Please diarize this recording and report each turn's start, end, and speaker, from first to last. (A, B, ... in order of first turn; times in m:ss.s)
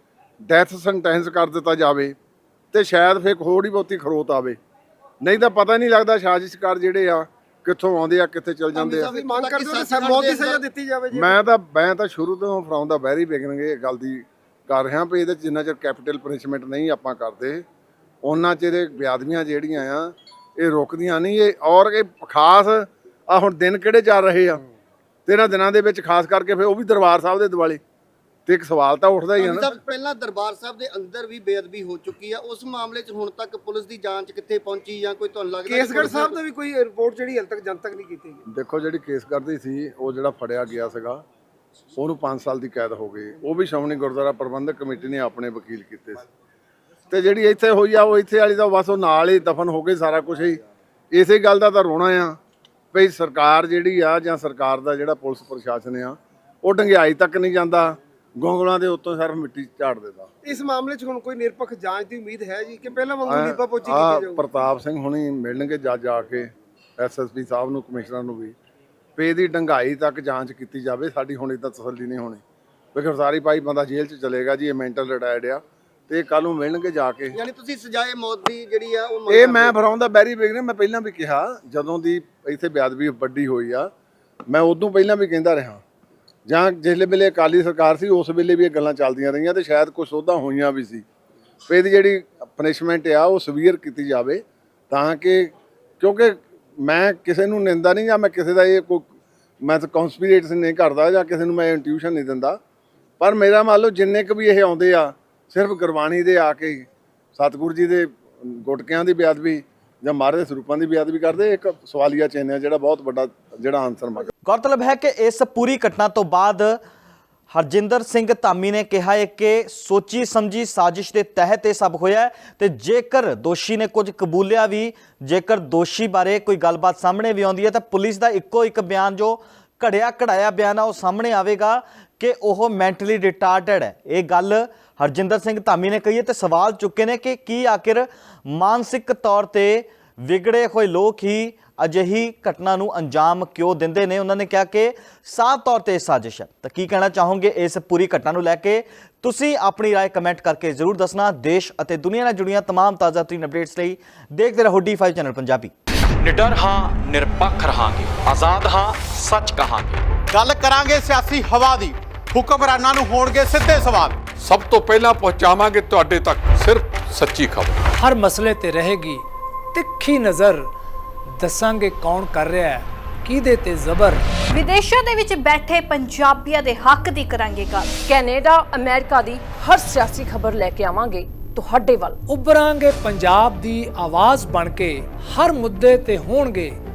0:00.4-0:02.1 A
0:02.7-0:04.6 A
0:05.2-0:09.1 A
0:08.7-0:10.6 B
0:09.2-0:11.4 C
0:11.1-0:17.6 A
0:18.2-0:24.6 A
0:25.2-0:27.8 A
0:28.4-0:29.7 A
0:29.4-0:36.4 B
0:35.7-0:38.4 C
0:38.5-0:41.2 A
0:42.0-0:46.2 A
0:47.1-0:50.6 A
0:51.1-0:52.4 A
0:52.9-1:00.3 A
1:00.4-1:04.4 C
1:03.3-1:08.5 A
1:09.2-1:12.4 A
1:12.9-1:17.4 A
1:17.3-1:19.8 B
1:19.3-1:23.9 A
1:24.5-1:25.8 A
1:26.5-1:31.0 A
1:31.7-1:39.1 A
1:39.6-1:42.6 A
1:43.2-1:54.3 A
1:54.4-1:56.8 D
1:57.5-2:35.7 D
2:36.2-2:40.0 E
2:40.3-2:44.1 F
2:44.4-2:47.8 G
2:48.0-2:50.7 H
2:51.4-2:54.2 H
2:54.5-2:57.9 I
2:58.1-3:02.2 J
3:02.3-3:06.8 H